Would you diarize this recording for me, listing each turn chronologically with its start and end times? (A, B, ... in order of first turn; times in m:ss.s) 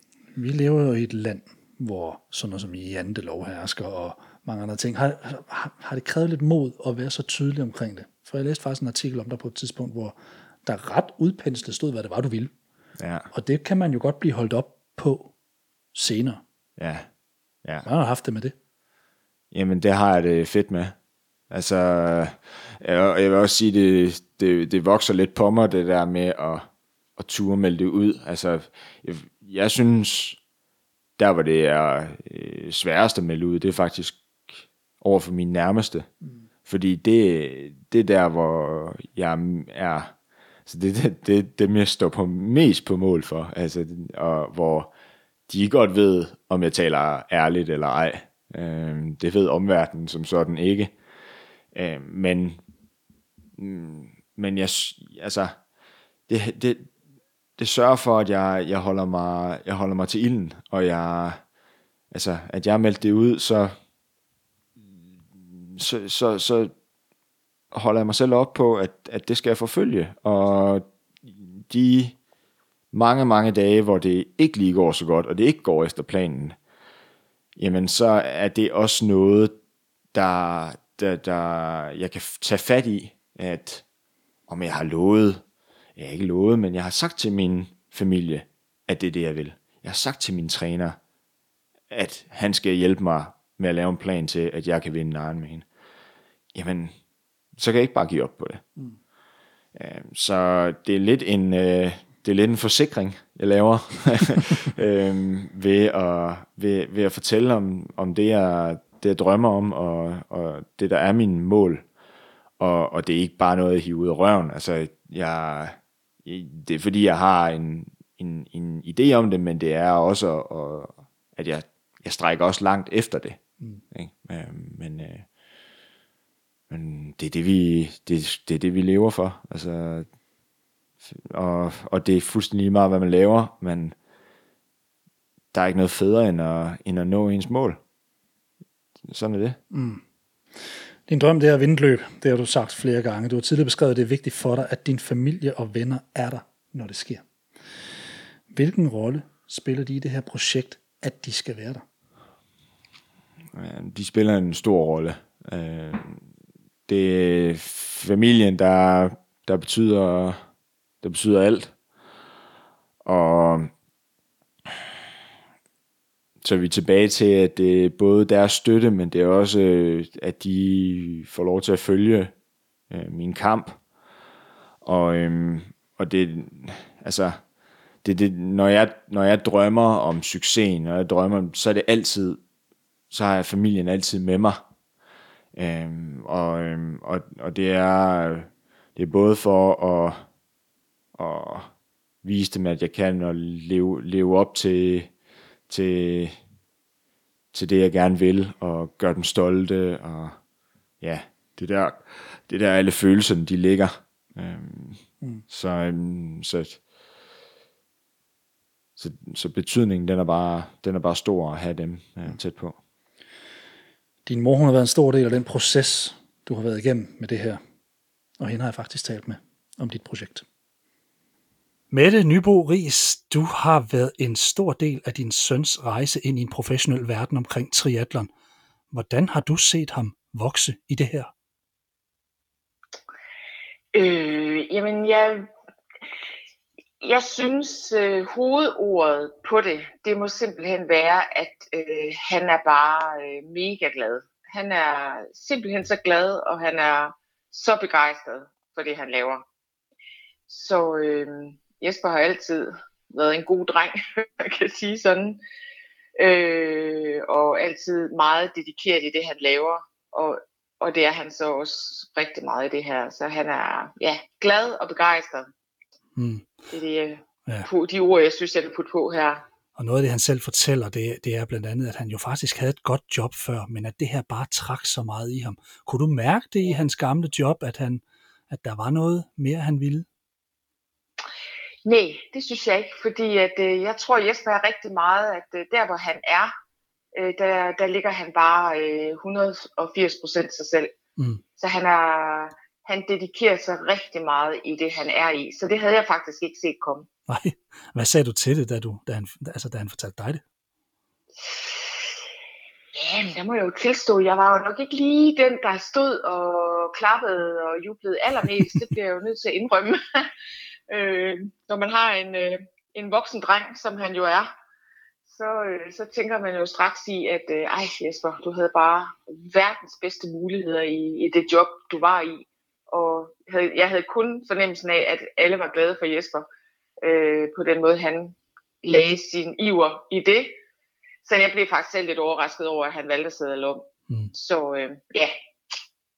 0:00.3-0:12.5 A
0:13.0-0:13.3 B
0:13.3-0:15.3 A
0:15.9-0:16.4 A
0:16.8-0:17.1 B
0:17.8-0:18.5 A
0:19.5-0:20.9 B
0:21.5-0:26.6 B
0:27.2-0:30.4 B
0:31.2-0:36.1 B
0:36.6-0:40.1 B
0:40.6-0:44.9 B
0:45.5-0:50.9 B
0:51.7-0:52.6 B
0:53.6-0:55.5 B
0:56.3-0:56.9 B
0:57.6-1:01.4 B
1:02.1-1:03.7 B
1:05.4-1:06.7 B
1:07.7-1:12.2 B
1:12.9-1:16.6 B
1:17.6-1:19.5 B
1:20.1-1:23.8 B
1:24.5-1:25.4 B
1:26.0-1:31.0 B
1:31.9-1:35.6 B
1:36.5-1:36.9 B
1:37.6-1:38.6 B
1:39.7-1:51.8 B
1:52.6-2:03.4 B
2:03.9-2:05.2 B
2:06.7-2:10.1 B
2:11.0-2:13.9 B
2:15.5-2:17.8 B
2:19.1-2:19.6 B
2:19.7-2:20.0 A
2:21.1-2:27.2 A
2:28.5-2:31.8 A
2:33.5-2:36.2 B
2:36.9-2:40.4 B
2:41.0-2:41.7 B
2:43.0-2:43.7 B
2:46.4-2:52.3 B
2:52.9-2:53.8 B
2:54.8-2:57.4 B
2:58.0-3:02.4 B
3:03.1-3:04.6 B
3:05.6-3:10.2 B
3:11.2-3:11.7 B
3:12.2-3:15.1 B
3:15.7-3:16.4 B
3:17.5-3:20.4 B
3:21.0-3:26.8 B
3:29.0-3:32.8 B
3:34.2-3:37.6 A
3:38.4-3:40.4 A
3:41.9-3:48.3 A
3:48.9-3:51.3 A
3:53.9-3:55.5 C
3:57.0-4:09.4 C
4:10.5-4:15.4 C
4:16.2-4:25.5 C
4:26.2-4:26.5 A
4:26.7-4:29.4 C
4:29.8-4:40.1 A
4:41.8-4:46.5 C
4:47.1-4:50.9 C
4:51.2-4:51.4 A
4:51.6-4:57.1 C
4:57.3-5:00.4 A
5:01.4-5:01.8 C
5:02.9-5:10.3 C
5:10.9-5:14.5 C
5:15.3-5:26.4 C
5:27.0-5:30.6 C
5:31.2-5:35.3 C